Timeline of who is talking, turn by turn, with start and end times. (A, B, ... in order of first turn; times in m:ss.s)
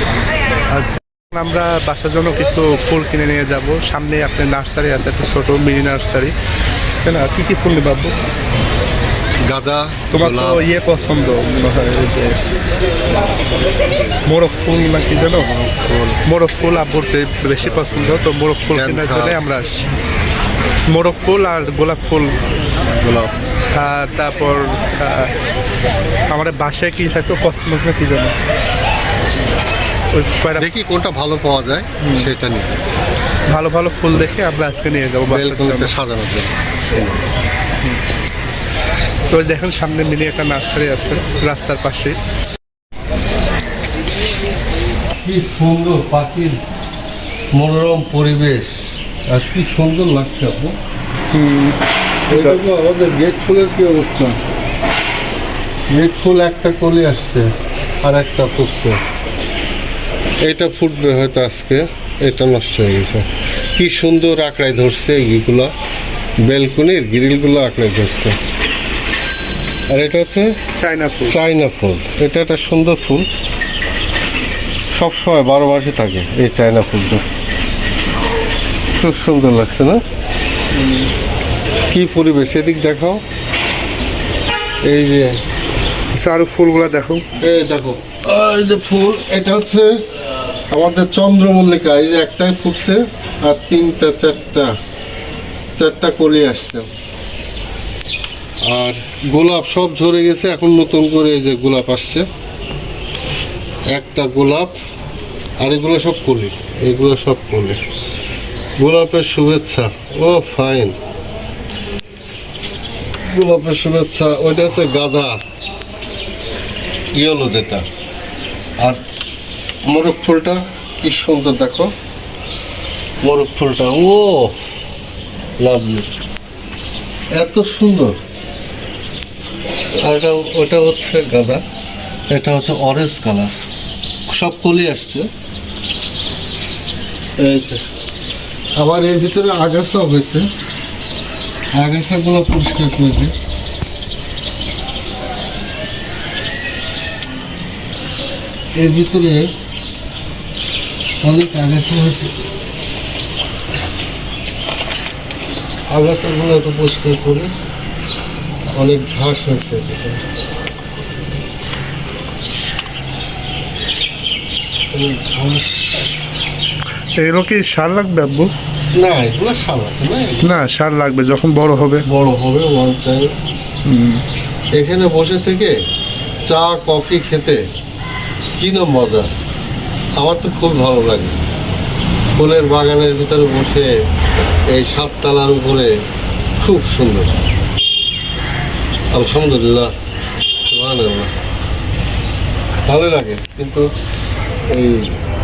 0:00.7-0:06.3 A
0:07.0-0:08.1 A
0:09.4-0:10.6 B
0:10.1-0:12.4 A
0:14.2-0:15.5 A
0:15.4-0:16.2 B
0:16.2-0:19.9 A
0:18.7-0:19.6 B
0:20.9-0:22.4 A
0:22.9-0:23.3 B
0:23.7-0:25.3 A
0:26.3-0:28.3 A
0:30.1-0:30.7 A
0:30.6-0:32.7 B
0:32.0-0:32.3 A
0:33.5-0:35.9 A
0:35.3-0:37.2 B
0:39.3-0:42.2 A
0:45.2-0:46.6 B
0:47.5-0:50.7 B
0:51.3-0:52.6 A
0:52.3-0:54.4 B
0:55.9-0:57.5 B
0:58.0-0:59.0 B
1:00.4-1:05.7 B
1:06.4-1:08.4 B
1:09.9-1:10.5 B
1:10.7-1:11.4 A
1:11.2-1:13.3 B
1:14.9-1:17.3 B
1:19.0-1:20.0 B
1:20.7-1:21.1 A
1:21.9-1:23.2 B
1:24.8-1:25.3 B
1:26.1-1:27.2 A
1:27.4-1:30.0 B
1:30.7-1:34.7 B
1:35.8-1:36.9 B
1:38.6-1:42.2 B
1:43.9-1:44.7 B
1:45.6-1:47.8 B
1:48.8-1:51.0 B
1:53.3-1:55.4 B
1:57.1-1:57.8 B
1:59.9-2:01.9 B
2:03.2-2:04.6 B
2:05.6-2:06.1 B
2:07.3-2:08.2 B
2:10.0-2:11.6 B
2:12.3-2:13.5 B
2:14.3-2:15.3 B
2:17.4-2:17.8 B
2:18.8-2:20.5 B
2:21.7-2:23.3 B
2:28.8-2:29.5 B
2:31.2-2:32.3 B
2:35.9-2:37.5 B
2:38.7-2:40.2 B
2:44.9-2:46.1 B
2:47.2-2:48.5 A
2:48.9-2:50.6 B
2:50.4-2:52.0 A
2:52.1-2:53.3 B
2:53.8-2:54.2 A
2:54.8-2:55.8 B
2:56.5-2:57.6 B
2:58.6-2:59.3 B
3:00.2-3:01.4 B
3:02.4-3:03.9 B
3:04.7-3:06.0 B
3:06.6-3:07.4 B
3:09.1-3:09.9 B
3:10.7-3:11.3 B
3:12.9-3:13.9 B
3:14.7-3:15.2 B